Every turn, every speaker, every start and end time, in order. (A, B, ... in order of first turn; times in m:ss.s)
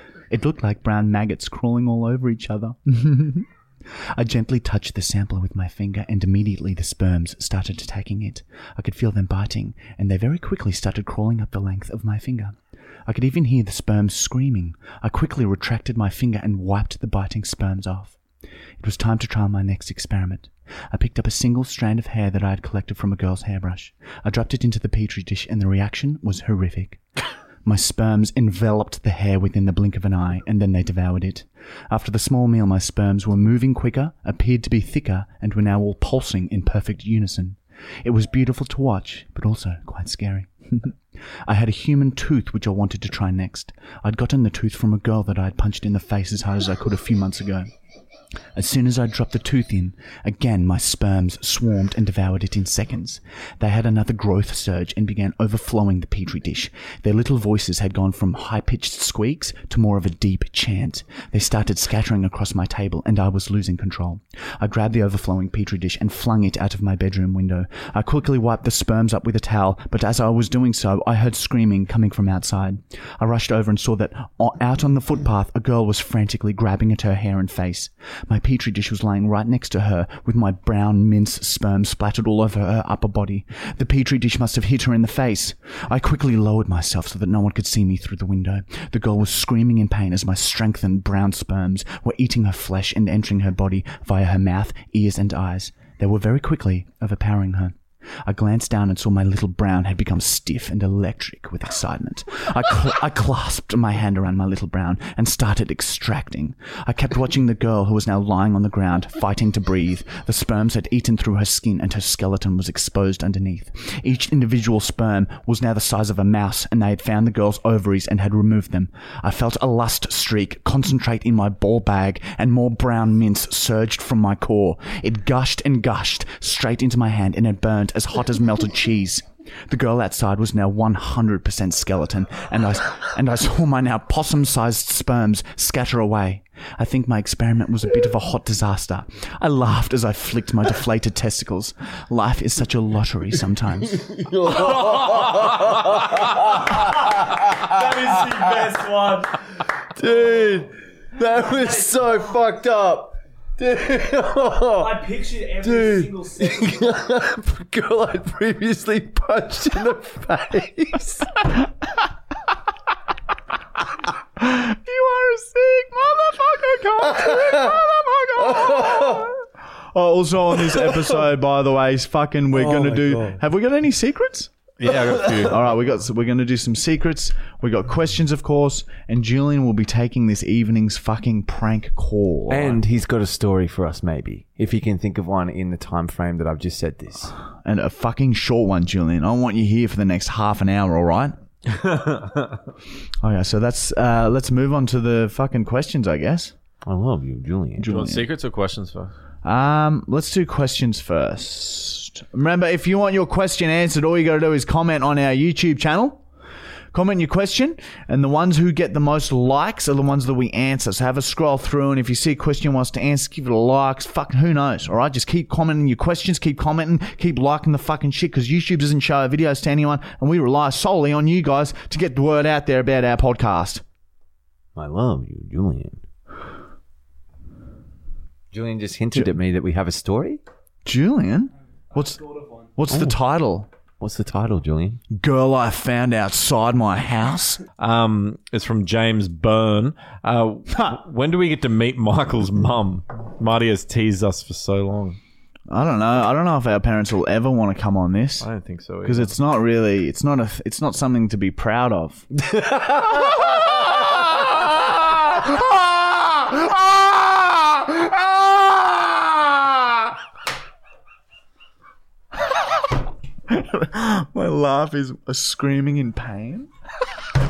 0:00.3-0:03.5 A
0:04.1-0:18.2 A
0:18.8-0:27.0 A
0:27.6-0:47.7 A
0:48.5-2:24.1 A
2:23.9-2:28.8 B
2:26.7-2:29.5 C
2:29.8-2:41.5 B
2:30.0-2:30.5 C
2:31.4-2:32.4 C
2:34.8-2:36.8 C
2:44.4-2:49.3 A
2:47.0-2:47.8 B
2:48.4-2:49.3 B
2:49.9-2:54.5 A
2:50.6-2:51.0 B
2:52.5-2:53.4 B
2:54.8-2:55.7 D
2:54.9-2:55.5 B
2:55.4-3:02.8 A
3:02.5-3:07.3 B
3:07.6-3:11.3 A
3:11.7-3:12.6 D
3:13.2-3:16.5 A
3:16.8-3:17.9 B
3:17.8-3:18.3 A
3:17.8-3:19.1 D
3:19.4-3:26.2 A
3:26.9-3:43.8 A
3:44.7-3:46.0 B
3:48.5-3:50.4 B
3:50.8-3:52.2 A
3:52.0-3:52.7 C
3:52.8-3:53.7 A
3:52.9-3:53.2 B
3:54.0-3:55.0 B
3:55.1-3:57.6 A
3:57.8-4:05.2 D
4:05.7-4:08.5 A
4:08.4-4:09.4 D
4:09.0-4:12.3 A
4:12.4-4:14.2 B
4:23.5-4:26.7 A